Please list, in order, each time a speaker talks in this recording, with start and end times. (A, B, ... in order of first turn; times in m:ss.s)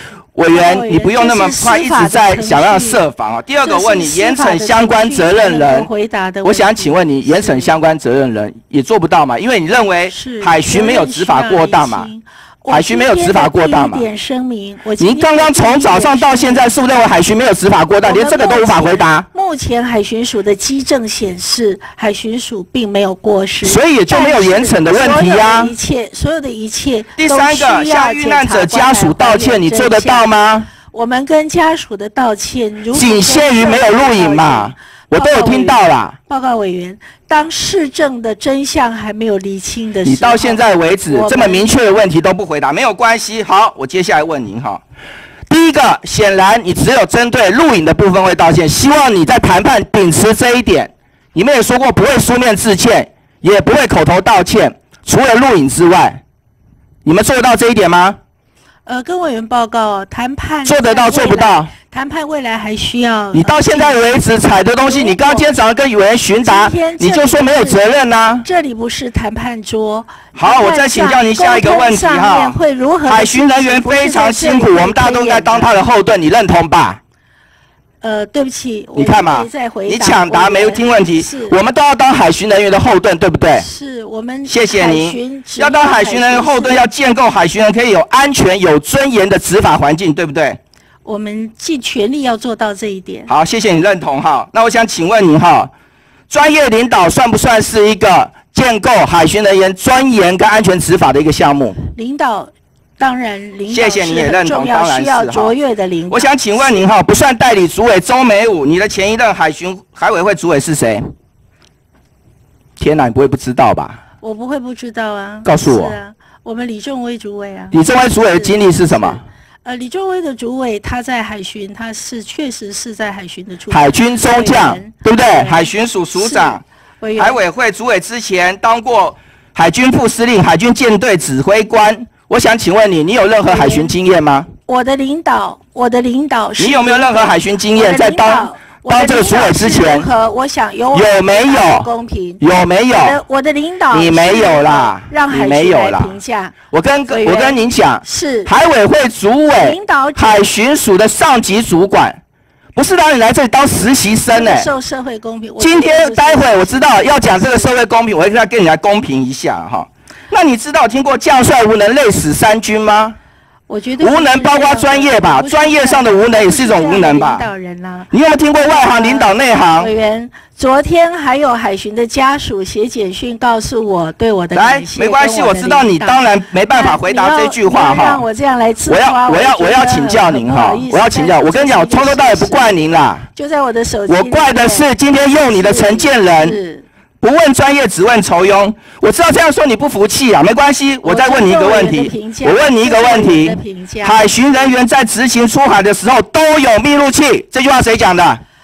0:00.3-0:05.9 A
0:00.5-0:03.0 B
0:03.6-0:07.8 B
0:06.4-0:12.1 A
0:10.1-0:16.7 B
0:12.7-0:14.0 A
0:15.0-0:19.3 A
0:18.0-0:41.7 B
0:23.6-0:25.7 A
0:27.2-0:30.7 A
0:32.9-0:36.2 A
0:40.0-0:44.8 A
0:45.5-0:56.2 A
0:57.0-0:58.2 A
0:58.8-1:04.0 B
1:00.6-1:01.7 A
1:03.3-1:08.5 A
1:04.8-1:05.5 B
1:06.4-1:07.8 B
1:08.4-1:15.8 B
1:10.3-1:17.0 A
1:18.0-1:21.6 B
1:19.0-1:23.7 A
1:23.5-1:26.8 B
1:24.4-1:30.6 A
1:31.0-1:33.3 B
1:33.3-1:35.7 A
1:36.3-1:41.8 A
1:41.9-1:46.8 B
1:43.7-1:45.5 A
1:46.1-1:51.1 A
1:52.8-1:54.0 A
1:54.2-1:57.8 B
1:55.4-1:56.0 A
1:57.7-1:59.2 A
1:58.3-2:07.4 B
2:03.7-2:06.6 A
2:07.2-2:14.5 A
2:13.4-2:13.9 B
2:14.7-2:22.4 B
2:16.6-2:20.1 A
2:20.9-2:21.9 A
2:22.4-2:23.2 A
2:23.0-2:28.5 B
2:23.9-2:26.1 A
2:26.7-2:32.2 A
2:29.5-2:30.4 B
2:32.8-2:34.7 A
2:34.3-2:37.7 B
2:35.6-2:43.2 A
2:43.7-2:48.1 B
2:44.0-2:47.4 A
2:48.1-2:49.9 A
2:48.6-3:06.8 B
2:54.5-2:58.2 A
2:58.9-3:03.3 A
3:04.1-3:06.6 A
3:07.2-3:18.4 A
3:11.0-3:14.4 B